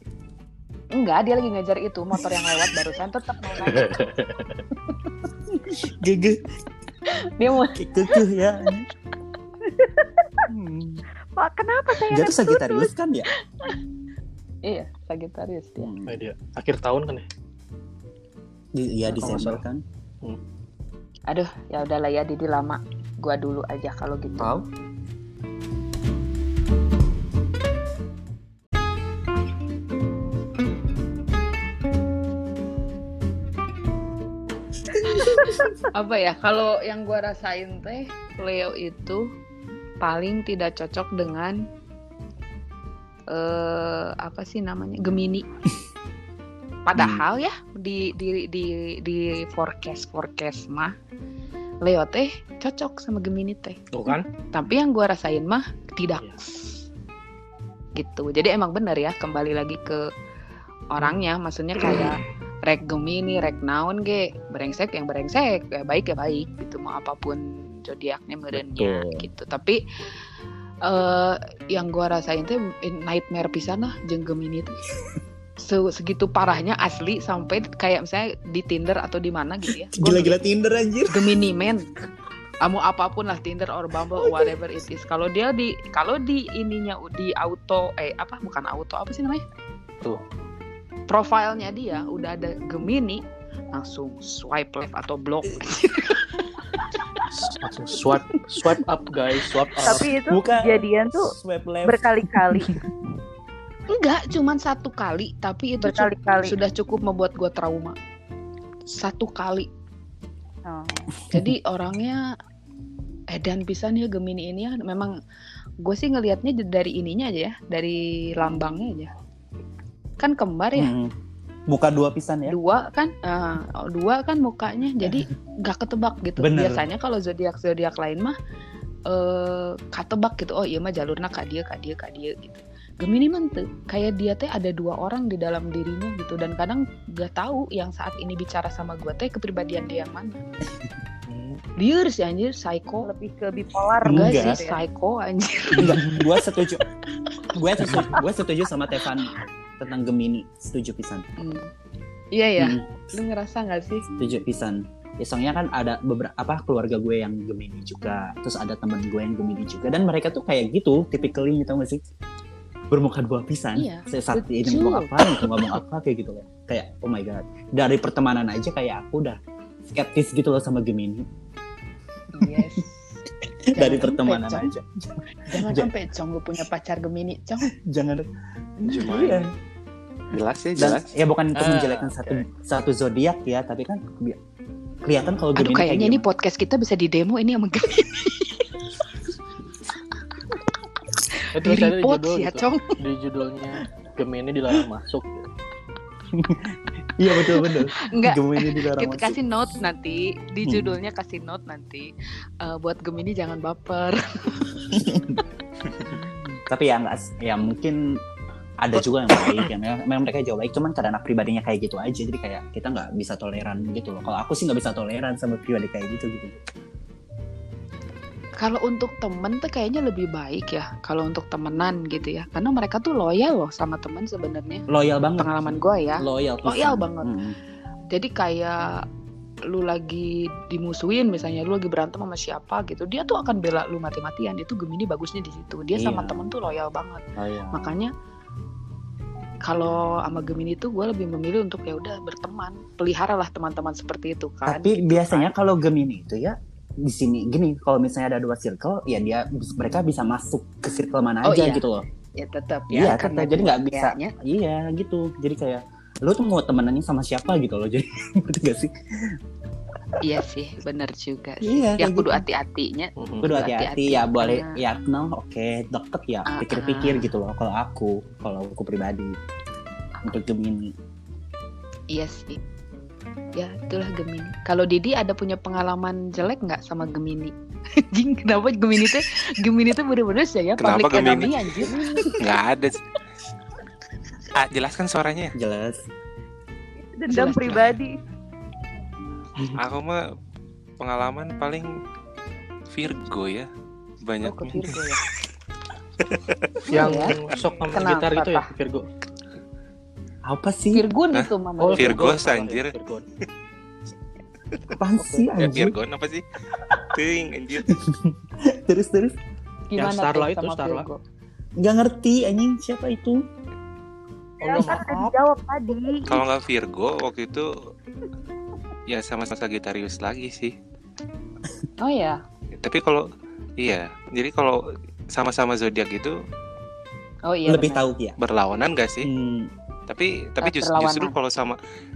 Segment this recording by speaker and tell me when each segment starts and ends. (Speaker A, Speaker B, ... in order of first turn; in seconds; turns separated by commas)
Speaker A: 0.9-4.1, Speaker B: 3.6-4.6, Speaker C: 5.5-6.4, Speaker A: 7.1-8.2, Speaker C: 7.8-8.8, Speaker C: 10.5-11.0, Speaker D: 11.3-12.8, Speaker C: 12.1-13.3, Speaker A: 14.6-15.9, Speaker C: 15.8-16.2, Speaker B: 16.1-17.2, Speaker C: 18.8-19.8, Speaker B: 19.1-19.6, Speaker A: 21.3-24.5, Speaker C: 24.4-24.6, Speaker A: 34.9-39.2, Speaker C: 35.0-35.7, Speaker A: 40.0-41.6, Speaker A: 43.3-45.4, Speaker A: 46.9-50.9, Speaker C: 47.0-47.2, Speaker A: 51.8-56.8, Speaker B: 53.9-54.3, Speaker A: 58.0-60.1, Speaker A: 60.9-69.8, Speaker B: 61.9-62.1, Speaker C: 68.5-69.3, Speaker A: 70.8-74.8, Speaker A: 75.6-80.4, Speaker C: 80.0-81.3, Speaker A: 81.1-81.9, Speaker A: 82.6-89.4, Speaker C: 84.2-84.5, Speaker A: 91.1-97.2, Speaker B: 97.3-100.1, Speaker D: 99.8-101.3, Speaker C: 100.2-102.6, Speaker D: 101.8-102.8, Speaker A: 103.9-108.0, Speaker D: 105.8-106.6, Speaker A: 108.9-109.7, Speaker D: 110.7-111.1, Speaker A: 111.3-112.3, Speaker A: 113.3-115.2, Speaker A: 115.8-119.1, Speaker A: 120.2-120.9, Speaker C: 120.8-121.1, Speaker C: 121.7-122.6, Speaker A: 122.5-128.3, Speaker C: 126.4-126.8, Speaker A: 129.1-140.4, Speaker B: 141.3-141.6, Speaker A: 141.8-143.1, Speaker D: 143.0-144.8, Speaker C: 144.0-144.7, Speaker A: 144.1-146.4, Speaker C: 145.8-146.8, Speaker C: 147.5-151.2, Speaker A: 151.4-151.7, Speaker A: 152.3-154.1, Speaker C: 152.6-153.0, Speaker C: 154.2-162.0, Speaker C: 162.9-171.2, Speaker A: 163.8-165.1, Speaker A: 172.3-173.0, Speaker C: 172.4-172.8, Speaker A: 173.7-174.7, Speaker C: 173.7-175.9, Speaker A: 175.5-177.7, Speaker C: 177.7-178.3, Speaker C: 178.8-179.5, Speaker E: 178.8-179.5, Speaker E: 180.3-181.1, Speaker C: 180.8-184.4, Speaker B: 181.5-182.5, Speaker C: 185.0-186.2, Speaker A: 185.6-188.7, Speaker A: 191.2-192.9, Speaker B: 191.5-195.4, Speaker C: 196.3-199.4, Speaker A: 197.3-205.1, Speaker C: 200.6-200.9, Speaker C: 204.9-205.4, Speaker C: 206.2-208.0, Speaker C: 208.8-216.6, Speaker A: 218.6-224.8, Speaker C: 224.9-225.5, Speaker A: 225.4-227.3, Speaker C: 226.2-227.6, Speaker A: 228.1-229.0, Speaker A: 229.7-238.1, Speaker C: 235.9-236.5, Speaker C: 237.4-237.9, Speaker A: 239.6-245.5, Speaker C: 244.7-252.1, Speaker A: 251.4-251.8, Speaker A: 252.3-254.3, Speaker C: 252.9-259.4, Speaker A: 260.2-264.8, Speaker C: 261.6-262.4, Speaker B: 263.1-263.7, Speaker C: 263.4-269.3, Speaker A: 266.5-267.3, Speaker C: 270.2-270.8, Speaker A: 272.1-272.6, Speaker A: 273.6-282.4, Speaker E: 280.8-282.9, Speaker E: 284.5-285.6, Speaker C: 285.5-286.0, Speaker D: 287.0-288.1, Speaker A: 287.3-287.9, Speaker E: 289.8-290.2, Speaker E: 291.0-291.9, Speaker E: 292.9-293.7, Speaker E: 294.2-294.9, Speaker A: 294.4-295.2, Speaker E: 296.2-296.8, Speaker A: 296.9-297.3, Speaker B: 296.9-299.1, Speaker A: 297.9-298.7, Speaker C: 300.4-301.0, Speaker A: 300.9-302.4, Speaker E: 301.3-302.9, Speaker B: 301.8-303.2, Speaker C: 304.9-305.9, Speaker A: 305.2-305.5, Speaker E: 305.6-306.4, Speaker E: 307.1-307.9, Speaker C: 307.9-309.3, Speaker A: 309.9-311.2, Speaker B: 310.0-311.1, Speaker C: 311.8-313.4, Speaker B: 314.6-315.1, Speaker D: 314.6-316.3, Speaker E: 316.3-317.7, Speaker E: 319.1-320.7, Speaker A: 322.0-322.4, Speaker E: 322.7-323.2, Speaker E: 323.8-324.8, Speaker E: 325.3-326.3, Speaker A: 327.4-328.0, Speaker C: 327.7-328.4, Speaker E: 328.4-329.3, Speaker C: 329.2-329.7, Speaker E: 330.1-331.8, Speaker A: 330.6-331.4